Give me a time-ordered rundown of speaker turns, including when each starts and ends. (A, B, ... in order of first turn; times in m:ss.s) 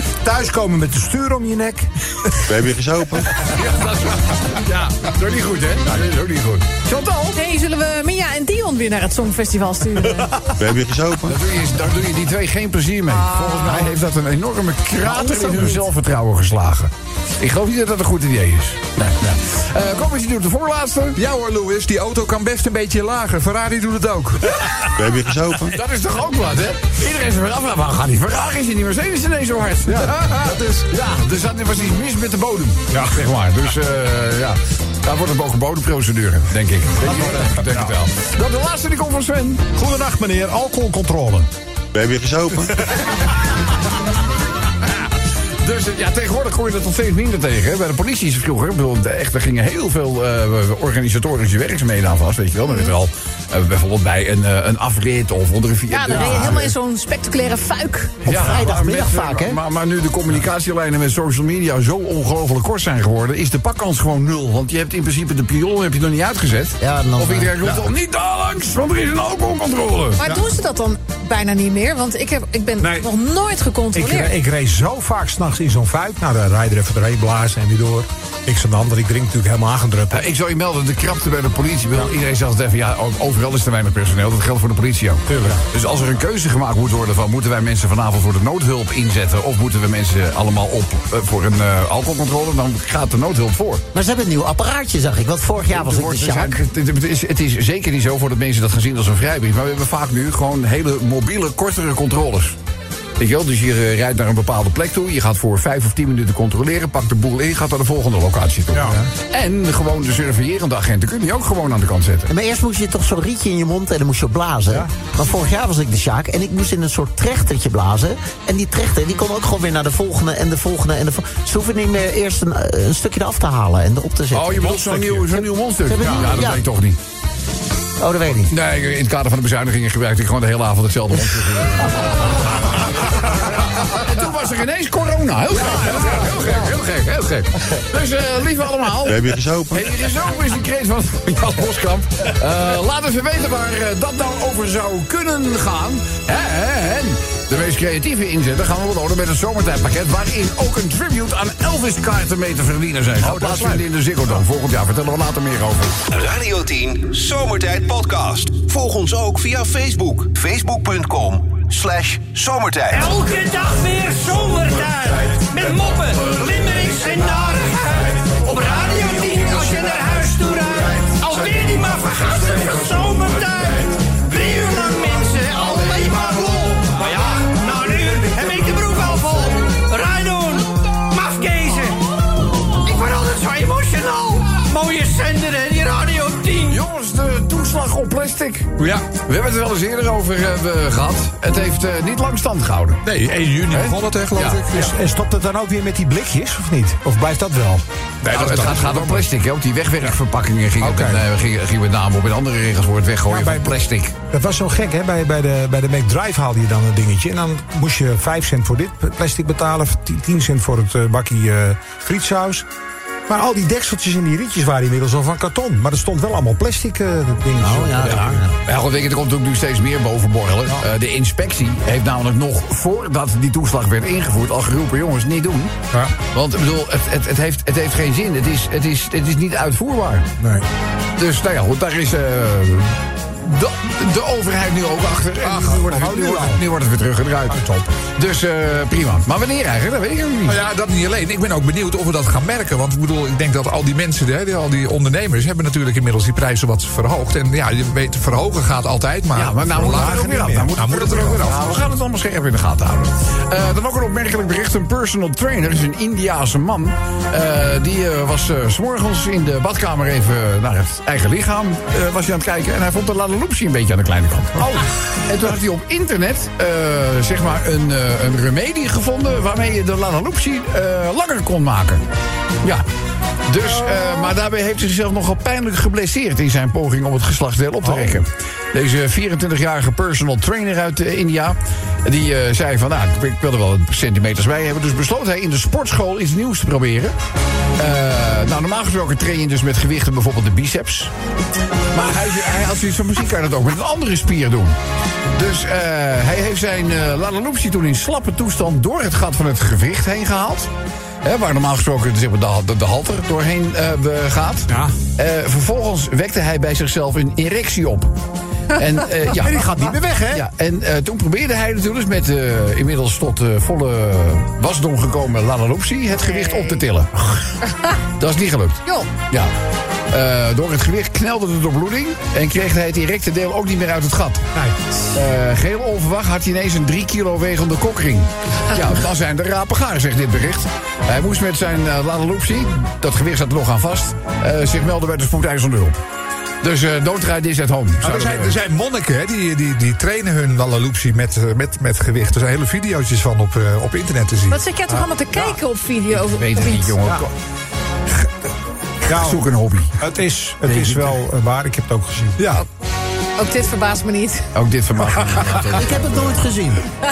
0:00.2-0:02.3 A
0:02.4-0:03.3 B
0:03.4-0:07.4 C
0:07.3-0:10.4 D
0:10.6-0:11.4 B
0:11.3-0:21.2 C
0:13.1-0:13.9 D
0:21.2-0:24.5 E
0:24.9-0:25.8 B
0:25.7-0:39.6 C
0:29.9-0:30.8 A
0:32.9-0:33.2 A
0:37.0-0:37.9 A
0:39.7-0:41.5 A
0:41.9-0:42.7 B
0:45.6-0:56.7 C
0:52.6-0:52.9 D
0:55.9-0:58.2 D
0:58.2-0:59.6 F
0:58.2-1:10.2 C
1:06.8-1:07.5 F
1:10.2-1:14.3 D
1:12.8-1:13.1 A
1:13.9-1:20.3 A
1:20.1-1:33.8 C
1:25.3-1:25.6 A
1:33.9-1:36.6 F
1:35.7-1:42.6 C
1:43.2-1:52.3 C
1:48.7-1:49.1 A
1:52.3-2:04.9 F
2:04.3-2:07.0 C
2:05.8-2:06.6 F
2:08.0-2:08.5 F
2:08.5-2:36.0 C
2:19.0-2:19.9 B
2:36.1-2:43.2 G
2:43.0-3:00.6 H
3:01.1-3:01.9 H
3:03.0-3:06.7 H
3:06.6-3:13.0 C
3:08.8-3:09.0 E
3:13.0-3:14.9 E
3:13.7-3:14.6 C
3:14.7-3:17.8 A
3:18.2-3:19.3 E
3:18.3-3:24.1 C
3:20.8-3:21.1 A
3:23.3-3:23.7 A
3:24.3-3:32.6 A
3:33.3-3:38.4 A
3:37.6-3:38.5 F
3:38.0-3:45.7 C
3:46.3-3:50.3 C
3:50.4-3:50.6 A
3:51.2-4:00.6 C
3:55.4-3:56.6 A
3:57.5-3:57.9 A
4:00.5-4:11.6 E
4:09.3-4:24.7 C
4:09.7-4:11.3 A
4:24.6-4:24.8 A
4:25.2-4:32.0 C
4:33.5-4:47.1 C
4:34.0-4:34.3 D
4:47.8-4:51.1 C
4:51.9-4:54.8 C
4:55.3-5:00.7 C
5:01.2-5:08.1 C
5:08.7-5:09.7 C
5:09.3-5:10.4 A
5:10.3-5:17.2 C
5:16.2-5:16.8 D
5:17.7-5:17.9 D
5:18.2-5:19.5 C
5:20.1-5:24.4 C
5:25.1-5:36.0 C
5:36.6-5:38.6 C
5:38.0-5:44.6 E
5:44.5-5:47.0 D
5:46.1-5:47.3 C
5:49.0-5:49.9 C
5:49.1-5:49.4 A
5:50.0-5:52.6 A
5:53.4-5:54.5 D
5:54.5-5:56.4 C
5:55.7-5:56.8 F